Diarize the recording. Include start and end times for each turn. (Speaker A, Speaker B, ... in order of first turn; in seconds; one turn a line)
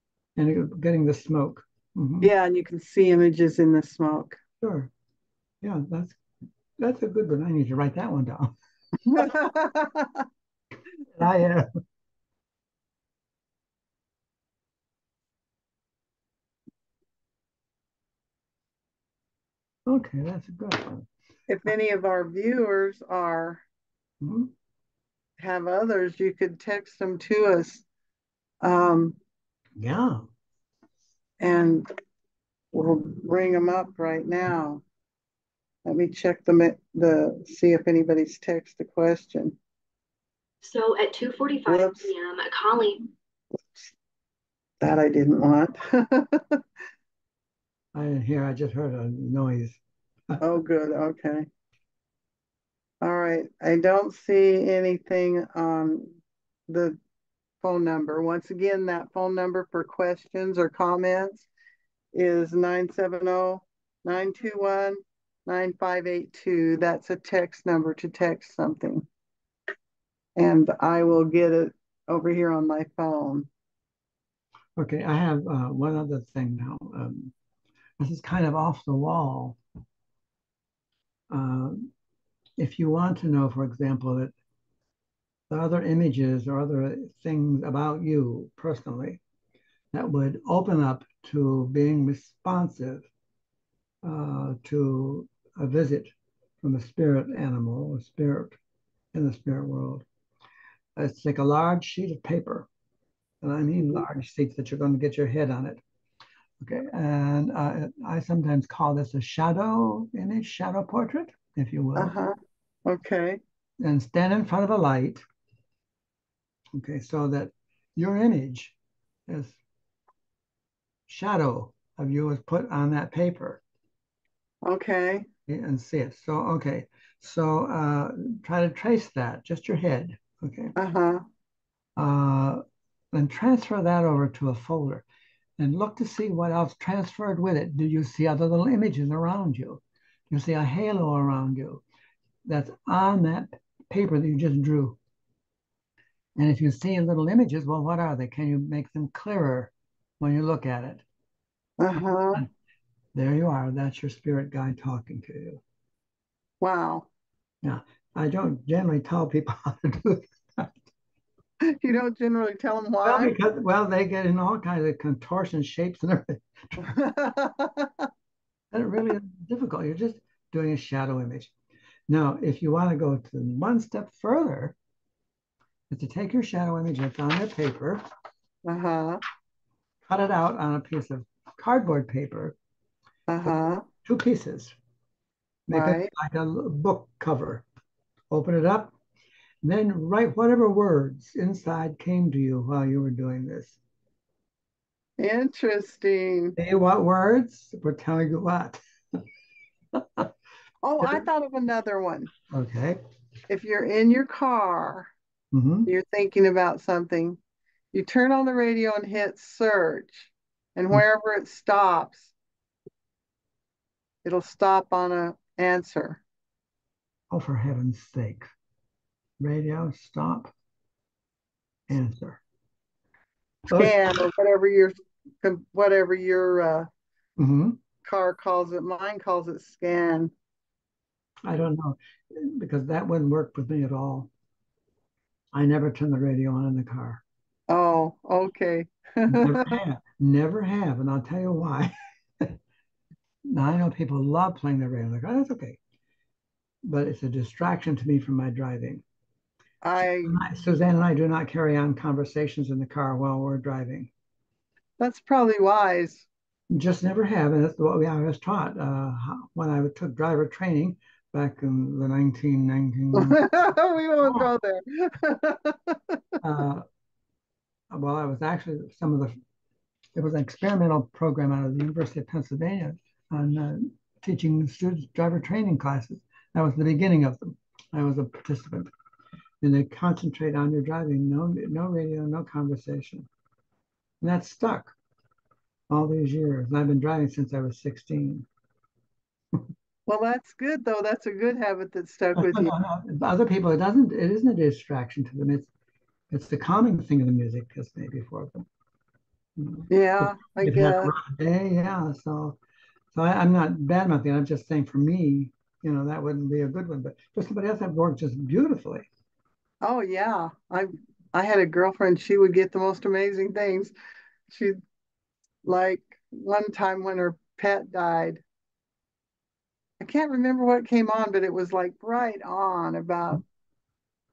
Speaker A: 0.4-2.3
Speaker B: 2.2-4.4
Speaker A: 4.6-4.9
Speaker A: 5.6-6.2
Speaker A: 6.8-8.5
Speaker B: 9.1-10.3
Speaker A: 11.1-11.7
Speaker A: 19.9-21.1
Speaker B: 21.5-23.6
Speaker A: 24.2-24.5
Speaker B: 25.4-27.9
Speaker B: 28.6-29.2
Speaker A: 29.8-30.3
Speaker B: 31.4-31.9
Speaker B: 32.7-34.8
Speaker B: 35.9-39.6
Speaker C: 40.6-43.1
Speaker B: 41.7-42.1
Speaker B: 44.8-46.6
Speaker A: 47.9-49.8
Speaker B: 50.4-51.5
Speaker B: 53.0-57.0
Speaker B: 57.6-61.5
Speaker B: 62.1-69.1
Speaker B: 70.4-73.5
Speaker A: 74.8-77.3
Speaker A: 78.0-79.6
Speaker A: 81.3-81.9
Speaker A: 82.6-84.3
Speaker A: 85.5-89.2
Speaker A: 89.9-93.1
Speaker A: 94.0-98.6
Speaker A: 99.1-100.0
Speaker A: 101.0-102.7
Speaker A: 103.4-105.8
Speaker A: 106.6-112.2
Speaker B: 112.0-112.3
Speaker B: 112.9-113.4
Speaker A: 113.8-115.2
Speaker A: 116.7-118.8
Speaker A: 119.3-119.6
Speaker A: 121.1-123.6
Speaker B: 124.7-125.3
Speaker A: 125.5-130.7
Speaker B: 130.8-131.2
Speaker A: 132.0-132.6
Speaker A: 133.1-135.1
Speaker A: 135.6-141.8
Speaker A: 142.4-145.0
Speaker A: 146.4-151.0
Speaker B: 151.8-152.4
Speaker A: 153.1-155.6
Speaker B: 156.6-157.1
Speaker A: 157.6-160.9
Speaker B: 161.6-163.3
Speaker A: 163.0-166.9
Speaker B: 166.8-168.1
Speaker A: 168.7-171.5
Speaker A: 172.1-174.8
Speaker A: 175.9-178.0
Speaker B: 178.7-179.2
Speaker A: 180.1-182.6
Speaker B: 183.3-183.8
Speaker A: 184.0-184.8
Speaker A: 185.7-187.7
Speaker B: 185.7-186.1
Speaker A: 188.3-188.9
Speaker A: 189.6-193.8
Speaker B: 195.2-196.6
Speaker A: 196.6-198.8
Speaker A: 199.9-200.3
Speaker B: 200.8-202.3
Speaker A: 202.5-203.0
Speaker B: 203.5-205.1
Speaker A: 205.5-205.9
Speaker B: 205.9-207.4
Speaker B: 207.9-212.3
Speaker B: 214.2-216.2
Speaker A: 217.3-218.5
Speaker A: 219.4-220.5
Speaker A: 221.9-222.4
Speaker A: 223.7-224.2
Speaker B: 223.7-226.9
Speaker A: 227.4-227.8
Speaker B: 228.0-230.3
Speaker A: 231.5-234.3
Speaker A: 235.5-237.2
Speaker B: 237.7-239.8
Speaker A: 239.3-242.6
Speaker A: 243.5-245.8
Speaker A: 246.8-249.0
Speaker B: 249.8-250.4
Speaker A: 250.2-254.1
Speaker B: 255.0-256.3
Speaker A: 256.7-264.5
Speaker B: 263.1-266.2
Speaker A: 266.4-266.8
Speaker A: 267.9-269.4
Speaker A: 270.2-278.9
Speaker A: 279.6-283.3
Speaker A: 284.2-284.9
Speaker A: 285.9-288.5
Speaker B: 290.1-292.7
Speaker A: 292.4-295.7
Speaker A: 296.3-298.7
Speaker A: 299.6-302.6
Speaker B: 299.9-301.1
Speaker A: 303.1-309.1
Speaker B: 309.8-313.9
Speaker B: 314.5-314.8
Speaker B: 315.6-318.4
Speaker B: 320.0-323.4